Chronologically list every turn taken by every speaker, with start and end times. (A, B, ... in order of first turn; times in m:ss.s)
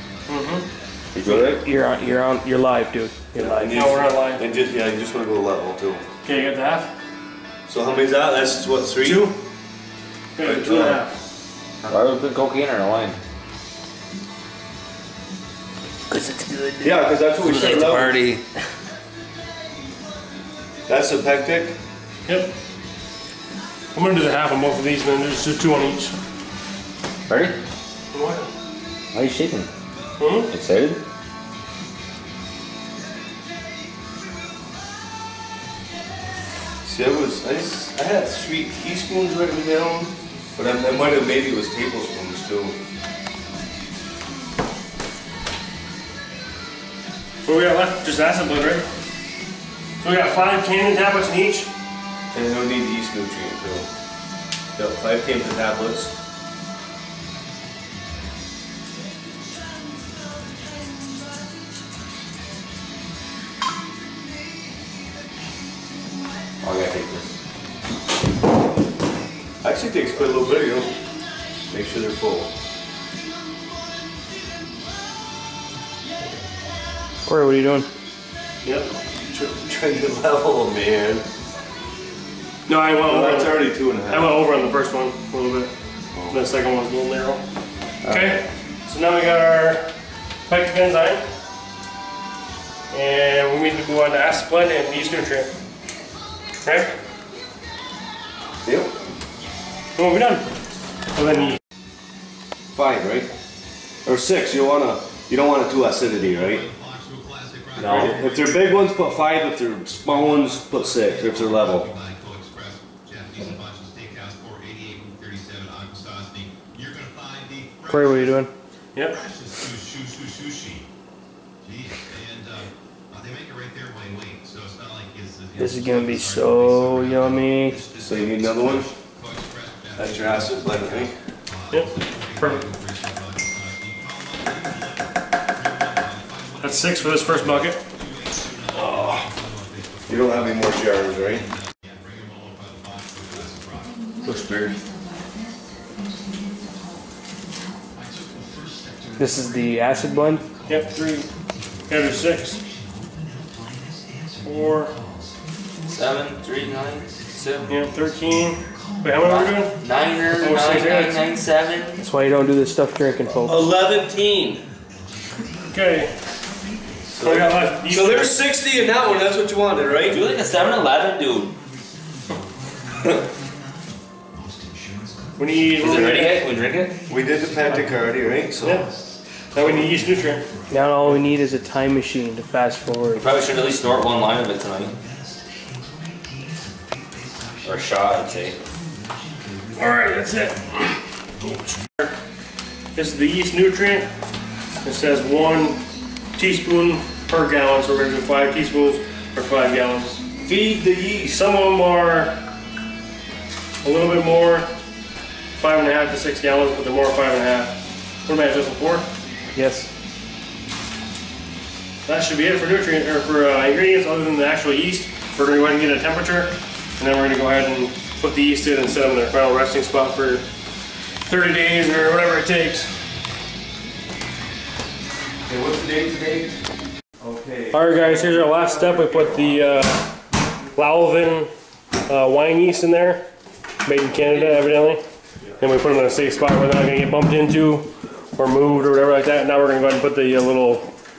0:00.3-0:00.6 A
0:01.1-0:01.6 B
0:01.2-0:03.7 C
0:03.3-0:06.0 D
0:03.7-0:04.4 A
0:06.2-0:06.9 A
0:07.7-0:09.4 D
0:09.0-0:09.4 A
0:10.4-0:11.1 A
0:10.4-0:11.0 D
0:11.8-0:13.2 B
0:16.1-0:16.4 C
0:16.2-0:16.9 B
0:16.8-0:18.2 D
0:17.4-0:18.4 B
0:20.9-0:21.8 D
0:22.2-0:22.5 A
0:23.9-0:26.1 A
0:27.3-0:27.6 B
0:28.1-0:28.5 A
0:29.1-0:29.7 B
0:30.2-0:30.5 A
0:30.5-0:31.0 B
0:36.8-0:42.8 D
0:47.4-0:48.8 A
0:50.0-0:51.7 A
0:52.3-0:53.8 D
0:54.8-0:56.1 D
1:06.6-1:07.3 B
1:09.6-1:10.9 D
1:11.7-1:12.5 D
1:17.2-1:17.9 C
1:18.6-1:18.9 A
1:19.3-1:21.2 D
1:22.7-1:25.7 A
1:23.0-1:24.4 D
1:26.3-1:27.4 A
1:28.0-1:28.4 D
1:28.0-1:29.9 A
1:30.5-1:31.2 A
1:32.9-1:35.5 A
1:36.6-1:36.9 A
1:38.6-1:38.9 D
1:40.0-1:40.5 A
1:41.1-1:41.6 A
1:42.7-1:43.3 D
1:44.0-1:46.7 D
1:47.8-1:48.2 B
1:47.8-1:51.9 D
1:57.8-1:58.5 C
1:58.9-1:59.2 A
2:05.6-2:07.8 C
2:08.0-2:08.9 D
2:10.0-2:11.1 D
2:11.7-2:12.6 A
2:16.6-2:17.8 A
2:18.8-2:19.2 B
2:20.1-2:21.4 D
2:24.2-2:24.8 B
2:29.2-2:30.4 C
2:30.7-2:31.3 A
2:31.9-2:32.6 A
2:34.4-2:34.9 A
2:35.9-2:37.7 B
2:37.7-2:41.2 A
2:39.2-2:42.0 B
2:42.0-2:43.6 C
2:43.3-2:44.6 D
2:45.7-2:46.1 A
2:47.1-2:50.2 D
2:47.2-2:48.4 A
2:50.0-2:51.6 B
2:55.4-2:56.4 A
2:55.8-2:57.0 B
2:57.1-2:58.8 D
2:59.5-3:00.4 A
3:00.7-3:03.2 C
3:03.2-3:05.0 B
3:07.6-3:08.6 B
3:09.7-3:12.1 A
3:12.9-3:14.1 A
3:14.8-3:15.8 A
3:16.4-3:20.2 A
3:20.4-3:21.4 D
3:21.3-3:22.4 A
3:23.8-3:24.7 A
3:25.6-3:29.1 A
3:29.5-3:29.9 C
3:32.0-3:40.4 A
3:41.2-3:42.9 A
3:45.5-3:46.6 D
3:47.2-3:49.7 D
3:47.7-3:50.1 A
3:50.7-3:51.5 A
3:52.0-3:53.3 A
3:53.8-3:55.0 A
3:55.6-4:00.9 A